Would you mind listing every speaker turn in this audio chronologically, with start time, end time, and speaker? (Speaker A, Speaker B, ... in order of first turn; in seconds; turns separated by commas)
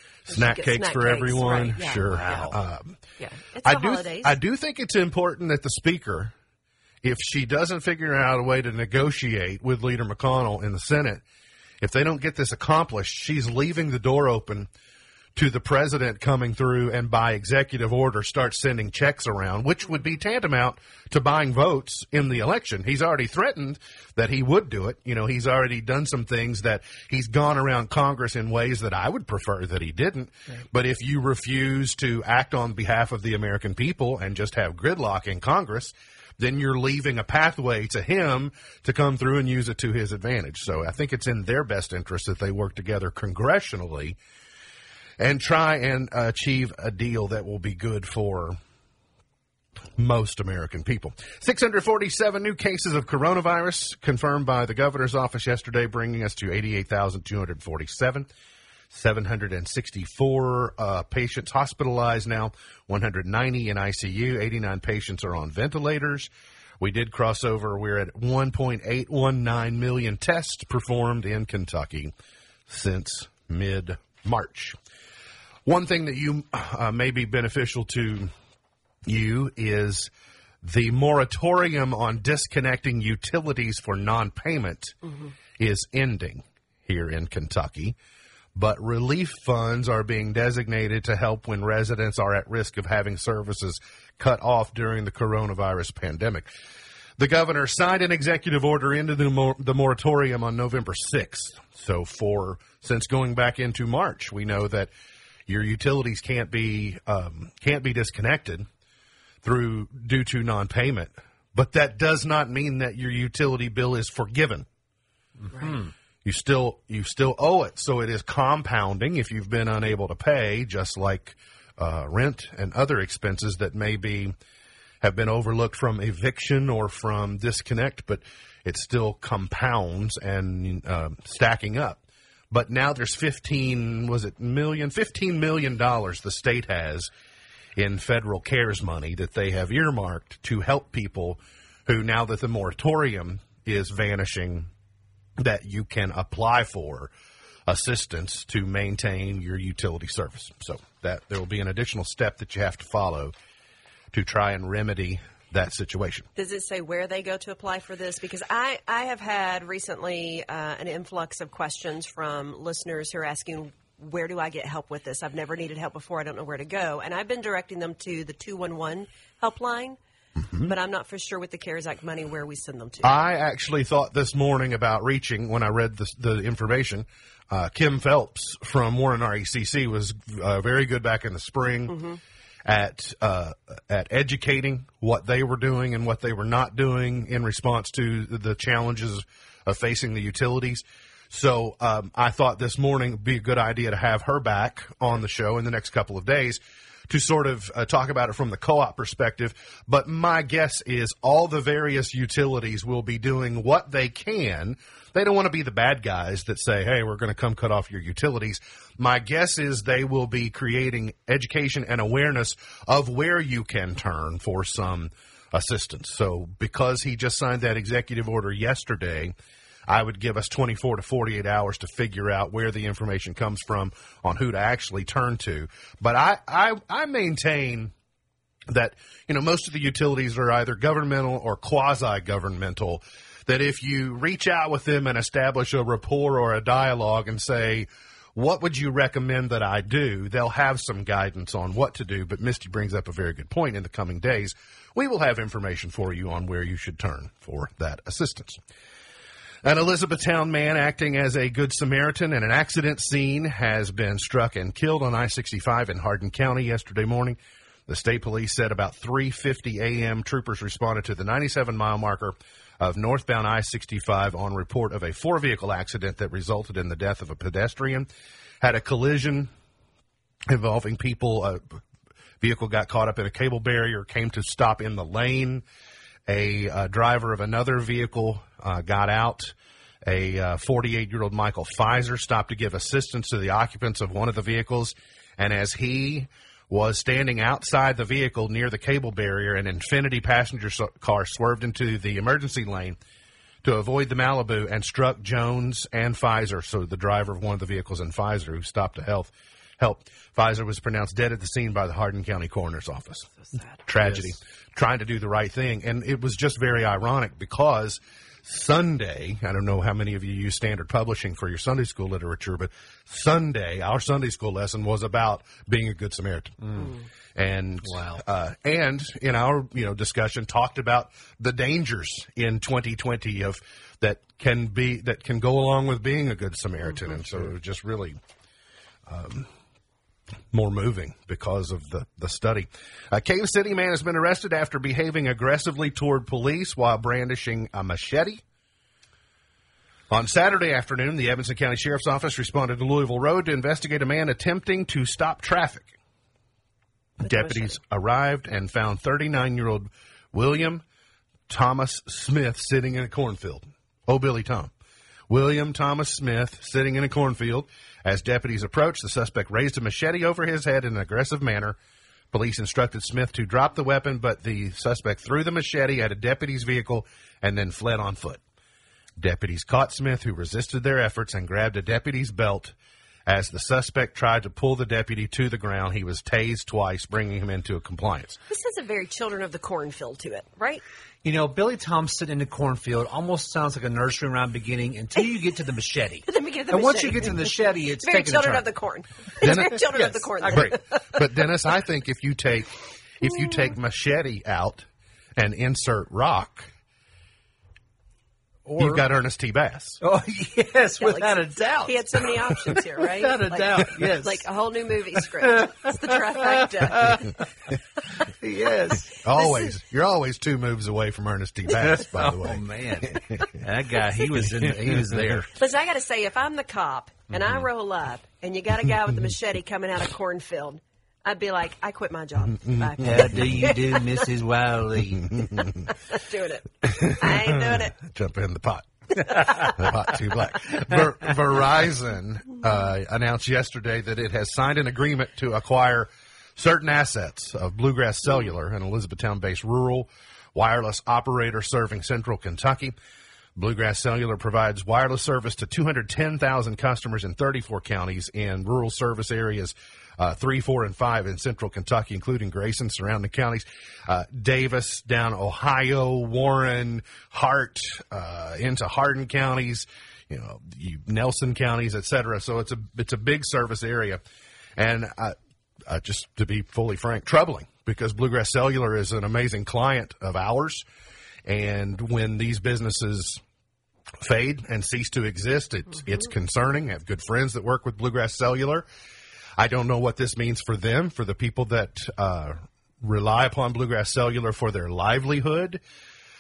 Speaker A: 0.3-3.0, Speaker B: 0.3-2.6, Speaker C: 2.1-2.6, Speaker B: 3.2-4.4, Speaker A: 3.6-6.3, Speaker A: 7.0-11.2, Speaker A: 11.8-14.7, Speaker A: 15.3-44.2, Speaker A: 45.2-48.6, Speaker A: 50.0-58.3, Speaker A: 58.9-72.1, Speaker A: 72.7-74.8, Speaker A: 75.7-78.3, Speaker A: 79.1-80.1, Speaker A: 80.6-85.0, Speaker A: 85.6-88.0, Speaker A: 88.5-96.5, Speaker A: 97.2-104.9, Speaker A: 105.5-108.7, Speaker A: 109.4-114.7, Speaker C: 115.5-115.9, Speaker A: 116.2-124.3, Speaker A: 125.0-132.0, Speaker A: 132.5-137.1, Speaker A: 137.8-144.7, Speaker A: 145.4-147.1, Speaker A: 147.7-153.3, Speaker A: 154.1-156.3, Speaker B: 156.4-170.0, Speaker B: 170.6-173.2, Speaker A: 173.0-182.0, Speaker B: 181.9-182.2, Speaker A: 182.7-219.3, Speaker A: 219.9-227.9, Speaker A: 228.7-248.6, Speaker A: 249.6-268.1, Speaker A: 268.6-269.5, Speaker A: 270.5-271.8, Speaker A: 272.4-275.6, Speaker A: 276.3-293.0, Speaker A: 293.6-303.3, Speaker A: 303.9-328.2, Speaker C: 316.6-316.9, Speaker C: 317.9-318.2, Speaker A: 329.1-329.5, Speaker A: 330.5-338.4, Speaker A: 340.1-345.9, Speaker A: 347.2-350.8, Speaker B: 347.2-347.8, Speaker A: 351.5-354.7, Speaker A: 355.3-361.8, Speaker A: 362.3-368.4, Speaker A: 369.2-372.8, Speaker A: 373.3-378.4, Speaker B: 378.5-380.8, Speaker C: 381.2-388.7, Speaker B: 386.3-391.2, Speaker A: 389.4-389.8, Speaker C: 389.4-390.7, Speaker A: 390.5-396.7, Speaker C: 398.7-399.1, Speaker A: 398.8-400.0, Speaker C: 400.0-402.4, Speaker B: 401.0-407.3, Speaker C: 403.2-404.4, Speaker C: 405.4-407.5, Speaker C: 408.1-409.1, Speaker A: 409.2-413.6, Speaker B: 409.4-409.7, Speaker C: 411.7-415.5, Speaker A: 414.6-415.4, Speaker B: 415.6-424.1, Speaker A: 422.5-423.6, Speaker C: 423.0-425.4, Speaker A: 425.2-425.9, Speaker B: 425.9-427.9, Speaker A: 426.8-443.0, Speaker C: 429.3-429.7, Speaker A: 443.6-464.2, Speaker A: 464.8-470.9, Speaker A: 471.4-473.4, Speaker A: 474.2-478.9, Speaker A: 479.6-485.8